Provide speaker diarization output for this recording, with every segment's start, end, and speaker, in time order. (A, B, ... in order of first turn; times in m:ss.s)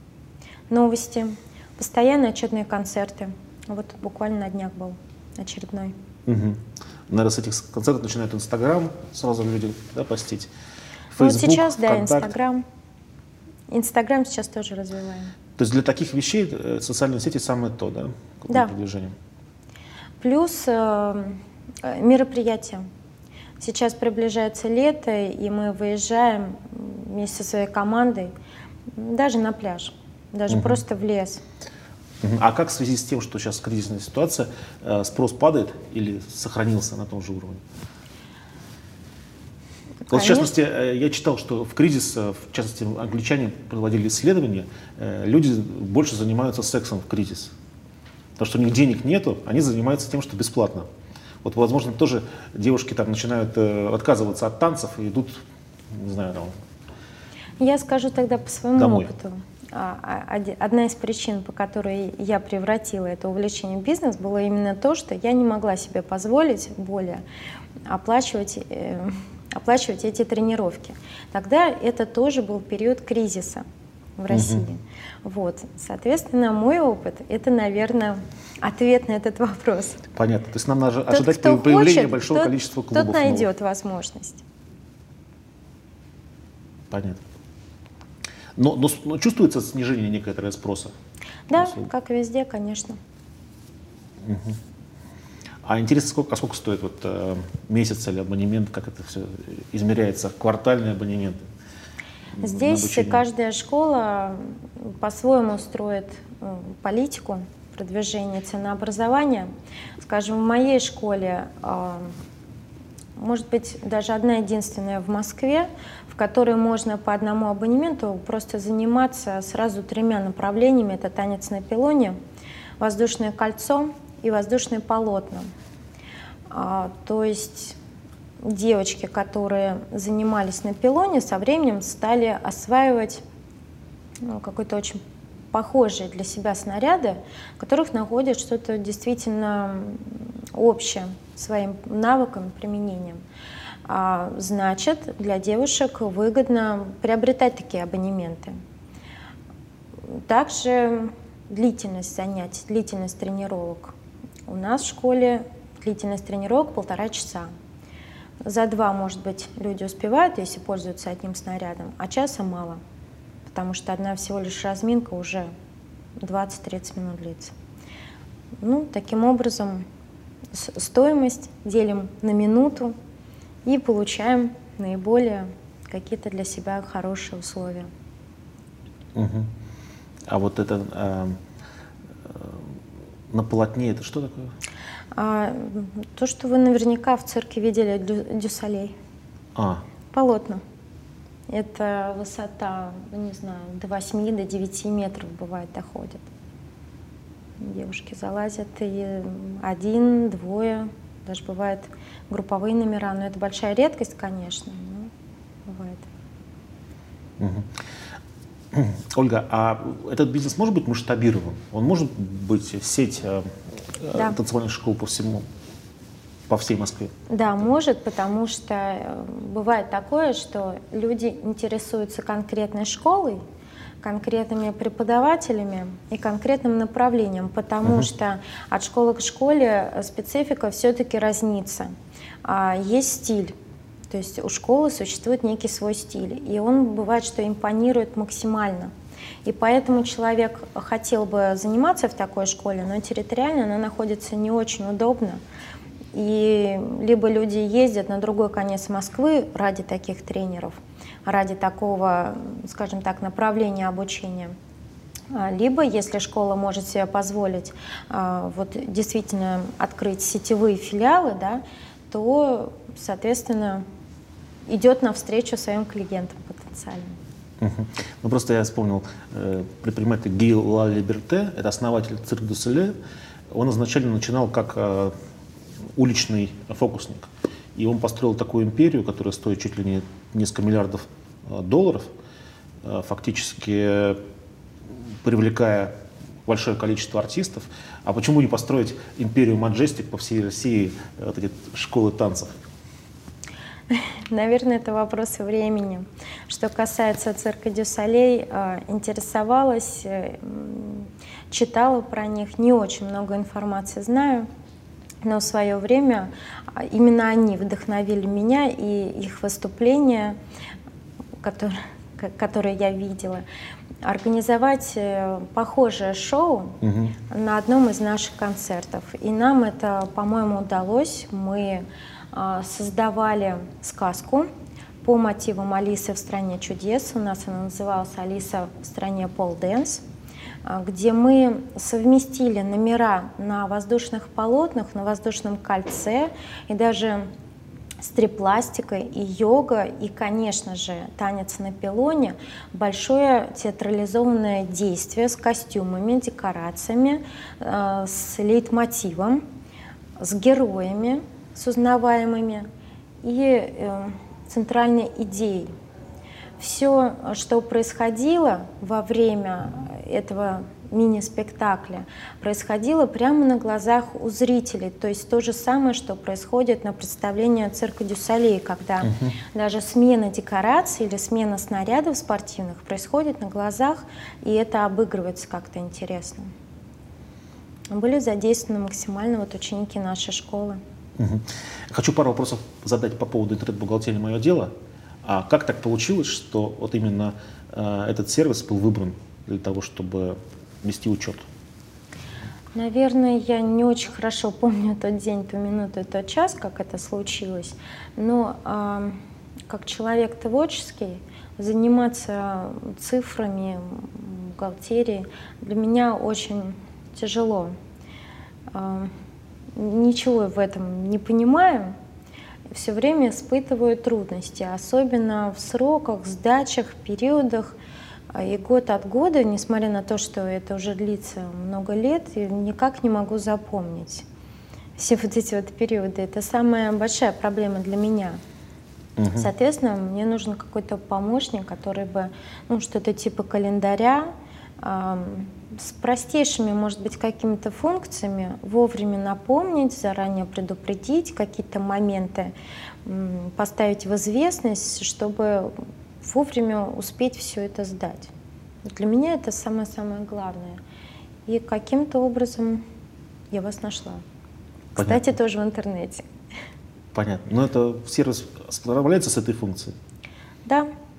0:00.7-0:05.9 A
0:06.3-0:10.5 B
0:11.1-0:12.3 B
0:11.2-0:12.6 A
0:13.7-0:15.3 A
0:15.6-0:19.2 B
0:20.2-0:22.9 A
0:23.6-0:28.3 A
0:28.9-0:31.4 A
0:30.5-0:30.8 B
0:32.2-0:37.6 B
0:40.1-0:40.5 A
0:40.1-0:47.5 B
0:48.4-0:50.9 B
0:51.4-0:56.6 B
0:57.6-1:07.2 A
0:58.8-0:59.1 B
1:07.9-1:13.6 A
1:14.2-1:20.0 A
1:14.3-1:14.6 B
1:20.1-1:23.5 B
1:21.1-1:24.4 A
1:26.9-1:27.2 B
1:28.6-1:30.9 B
1:31.5-1:33.0 A
1:31.6-1:31.9 B
1:34.2-1:34.6 B
1:35.6-1:41.4 B
1:42.4-1:43.2 B
1:42.4-1:49.5 A
1:50.0-1:52.1 A
1:53.2-2:02.2 A
2:02.8-2:05.5 A
2:06.5-2:07.8 A
2:08.4-2:13.2 A
2:14.2-2:15.0 A
2:15.5-2:23.2 A
2:23.9-2:28.6 A
2:30.1-2:33.9 A
2:34.5-2:37.5 A
2:38.4-2:42.8 A
2:43.5-2:45.5 A
2:46.2-2:47.5 A
2:48.6-2:49.8 A
2:50.5-2:53.0 A
2:53.7-2:57.9 A
2:59.2-2:59.5 B
3:00.3-3:01.4 B
3:02.2-3:02.7 B
3:03.3-3:04.5 B
3:05.2-3:09.0 A
3:09.6-3:09.8 B
3:10.1-3:10.6 A
3:11.5-3:16.3 A
3:17.6-3:25.1 A
3:25.7-3:26.1 A
3:27.4-3:27.8 B
3:28.7-3:35.5 B
3:36.5-3:37.1 B
3:37.3-3:43.4 A
3:44.0-3:53.5 A
3:54.1-3:58.9 A
3:59.4-4:05.4 A
4:06.1-4:14.6 A
4:15.3-4:23.8 A
4:24.7-4:27.2 A
4:27.6-4:33.0 B
4:33.5-4:35.1 B
4:36.0-4:42.1 B
4:42.8-4:44.2 B
4:45.2-4:46.0 B
4:46.5-4:52.6 B
4:53.9-5:04.5 A
5:05.2-5:10.4 A
5:11.4-5:13.4 A
5:14.0-5:16.8 A
5:16.8-5:17.2 B
5:17.3-5:24.5 A
5:25.0-5:30.0 A
5:30.6-5:37.3 A
5:38.0-5:49.4 A
5:50.2-5:52.7 A
5:53.2-5:55.7 A
5:56.6-6:16.5 A
6:09.0-6:09.3 B
6:17.9-6:20.8 A
6:21.2-6:24.7 B
6:25.2-6:31.4 B
6:32.8-6:47.8 A
6:48.7-6:49.1 A
6:49.8-6:52.0 A
6:52.7-6:57.8 A
6:58.3-7:04.2 A
7:05.0-7:08.4 A
7:09.2-7:09.5 B
7:09.3-7:14.3 A
7:14.8-7:22.5 A
7:23.0-7:28.3 A
7:28.9-7:30.8 A
7:31.5-7:32.8 A
7:33.5-7:34.2 A
7:35.0-7:35.2 B
7:35.0-7:36.3 A
7:37.1-7:40.0 B
7:40.6-7:40.9 A